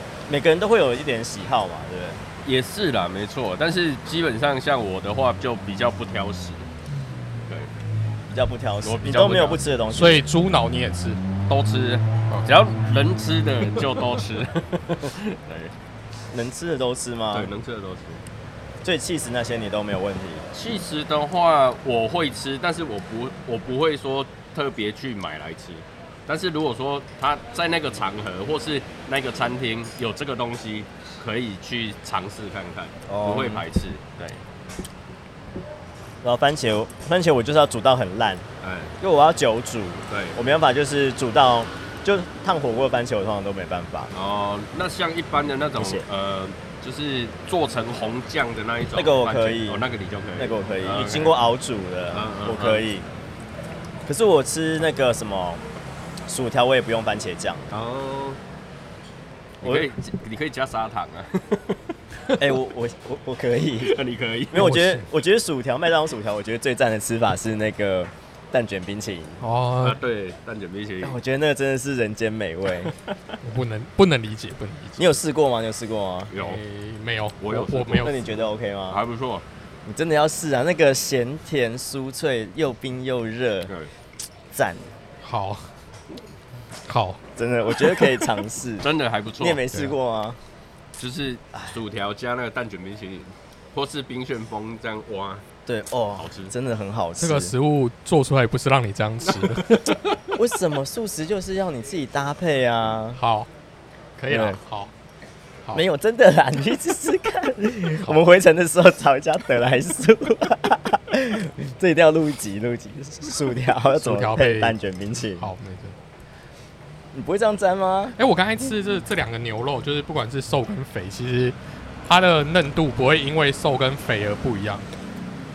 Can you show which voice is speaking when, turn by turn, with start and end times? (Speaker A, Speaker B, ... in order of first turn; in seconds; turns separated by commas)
Speaker A: 0.3-2.2, Speaker B: 2.4-6.7, Speaker B: 7.5-7.7, Speaker A: 8.3-10.2, Speaker B: 8.8-9.7, Speaker C: 9.9-11.2, Speaker B: 11.5-15.7, Speaker C: 12.3-12.6, Speaker C: 13.6-14.0, Speaker A: 16.3-17.5, Speaker B: 17.3-18.2, Speaker A: 18.8-20.5, Speaker B: 20.5-34.4, Speaker A: 33.1-33.6, Speaker A: 36.2-38.5, Speaker B: 38.6-39.0, Speaker A: 39.0-44.1, Speaker B: 40.1-40.4, Speaker B: 44.1-51.4, Speaker A: 45.8-46.0, Speaker A: 48.9-49.8, Speaker A: 50.4-53.0, Speaker B: 52.1-52.9, Speaker A: 54.0-55.6, Speaker A: 56.3-57.7, Speaker B: 57.7-58.4, Speaker B: 59.6-62.0, Speaker A: 59.6-59.9, Speaker A: 62.4-64.0, Speaker B: 63.8-64.7, Speaker A: 64.5-69.4, Speaker C: 64.5-65.0, Speaker C: 69.4-70.0, Speaker B: 69.8-71.2, Speaker A: 71.0-72.9, Speaker B: 72.8-73.3, Speaker C: 73.4-75.0, Speaker A: 75.0-76.3, Speaker B: 76.3-76.6, Speaker C: 76.3-78.2, Speaker B: 77.4-79.4, Speaker A: 77.9-79.0, Speaker A: 79.8-83.7, Speaker A: 84.5-84.9, Speaker C: 85.2-85.7, Speaker C: 86.8-87.2, Speaker A: 87.3-88.9, Speaker B: 88.8-89.6, Speaker A: 89.4-90.4, Speaker B: 91.0-95.5, Speaker A: 95.7-97.5, Speaker B: 96.2-96.5, Speaker C: 97.2-100.0, Speaker B: 99.2-100.2, Speaker A: 100.3-103.2, Speaker C: 103.2-103.5, Speaker C: 104.2-104.9, Speaker A: 104.3-104.6, Speaker A: 105.7-115.5, Speaker C: 113.9-114.7, Speaker C: 115.3-115.9, Speaker A: 117.1-118.2, Speaker C: 118.2-124.9